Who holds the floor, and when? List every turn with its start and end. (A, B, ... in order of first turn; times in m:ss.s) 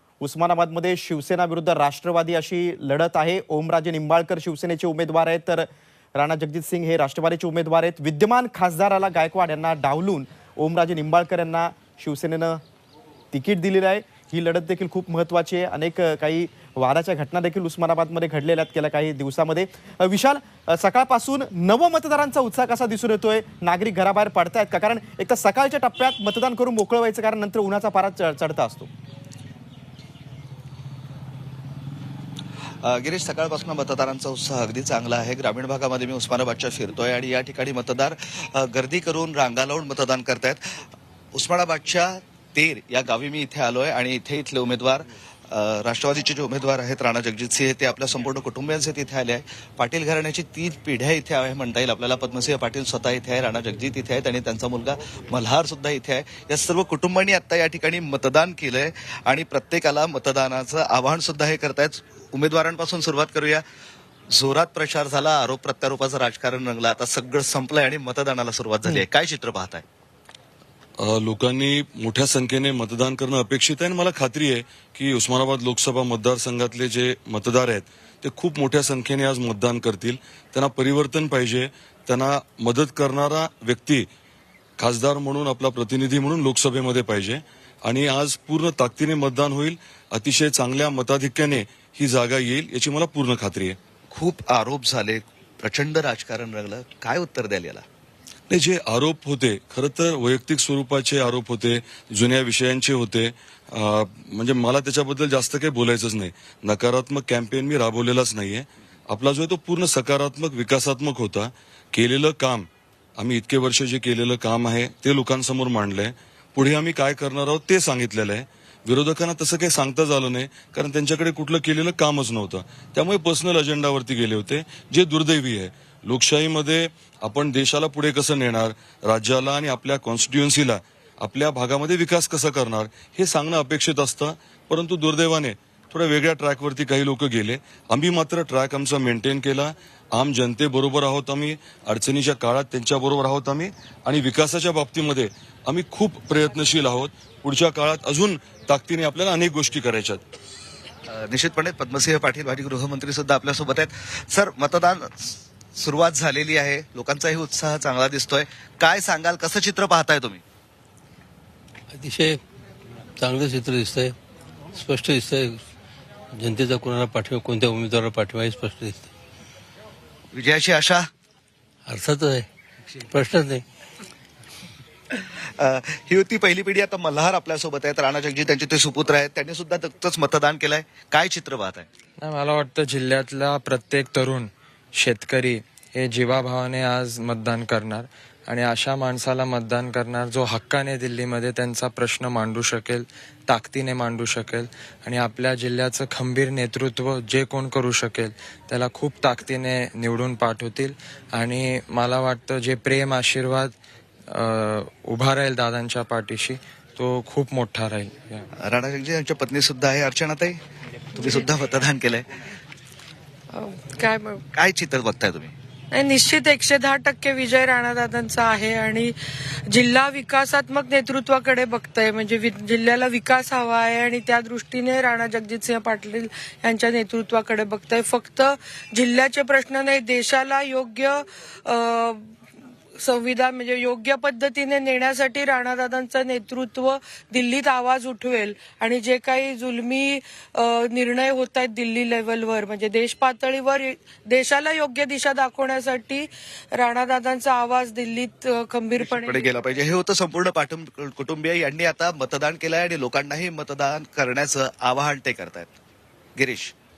0:00.2-0:12.6 A
0:13.3-0:28.9 A
0:32.8-1:03.6 B
1:04.3-1:09.8 B
1:11.0-1:24.1 C
1:24.8-1:33.8 C
1:34.1-1:37.8 B
1:38.5-2:30.2 C
2:31.1-2:40.4 B
2:42.0-2:42.4 D
2:43.2-2:44.1 D
2:44.8-2:45.4 D
2:46.4-2:49.1 D
2:50.3-2:51.1 B
2:51.9-2:52.5 D
2:53.1-2:53.6 D
2:55.4-3:01.9 B
3:02.2-3:23.8 E
3:24.3-3:28.5 E
3:28.6-3:30.6 B
3:31.2-3:32.3 B
3:33.5-3:34.4 F
3:34.5-3:35.5 B
3:35.9-3:39.1 F
3:39.7-3:52.3 F
3:53.0-4:09.4 F
4:09.0-4:15.7 B
4:16.4-4:16.7 B